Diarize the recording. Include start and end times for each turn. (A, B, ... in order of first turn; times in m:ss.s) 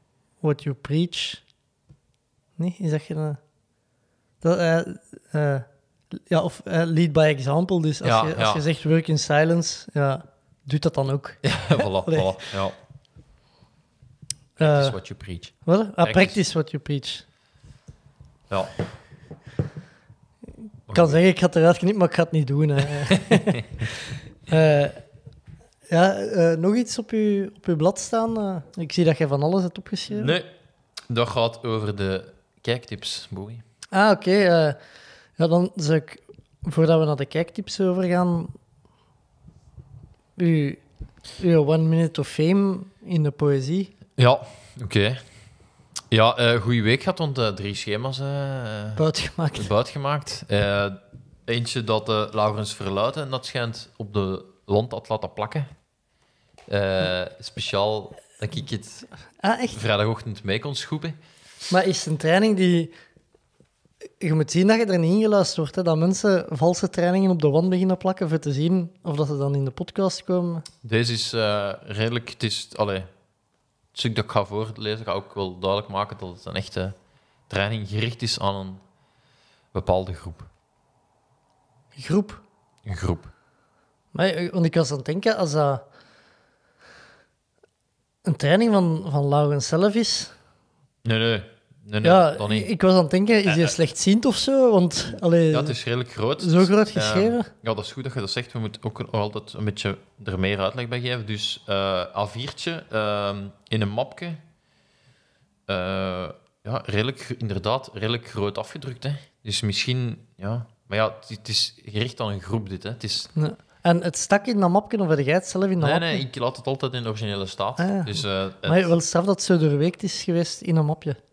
0:00.4-0:01.4 A
0:02.6-0:03.4 A
0:04.4-0:05.7 A
0:06.3-0:12.3 A
0:08.0-0:08.7 B
0:11.4-0:12.8 B
0:14.6-0:16.4 B
0:14.6-0:15.0 A
0:15.6-0:17.2 A
0:18.5-0:18.8 B
0:20.9-0:21.2 B
0:20.9-0:23.7 A
0:23.0-0:23.6 B
0:24.5-0:25.0 A
0:25.9-0:30.4 A
0:30.1-0:30.5 B
0:31.1-0:33.6 B
0:33.9-0:34.8 A
0:35.4-0:38.5 A
0:40.4-0:40.8 A
0:41.4-0:43.9 A
0:44.2-0:45.2 B
0:46.1-0:55.7 B
0:49.0-0:49.7 A
0:56.7-0:59.1 B
0:59.4-0:59.8 A
0:59.7-1:01.2 B
1:01.7-1:02.9 A
1:04.2-1:10.7 A
1:10.8-1:13.1 B
1:13.9-1:17.0 B
1:17.5-1:18.8 B
1:19.7-1:20.5 B
1:22.0-1:22.4 A
1:22.8-1:23.3 B
1:24.1-1:25.8 A
1:28.2-1:30.3 A
1:31.0-1:32.7 B
1:32.0-1:35.8 A
1:33.5-1:33.7 B
1:35.5-1:44.4 B
1:36.4-1:37.5 A
1:45.7-1:53.3 B
1:53.4-1:56.2 A
1:55.8-1:58.9 B
1:57.8-2:01.2 A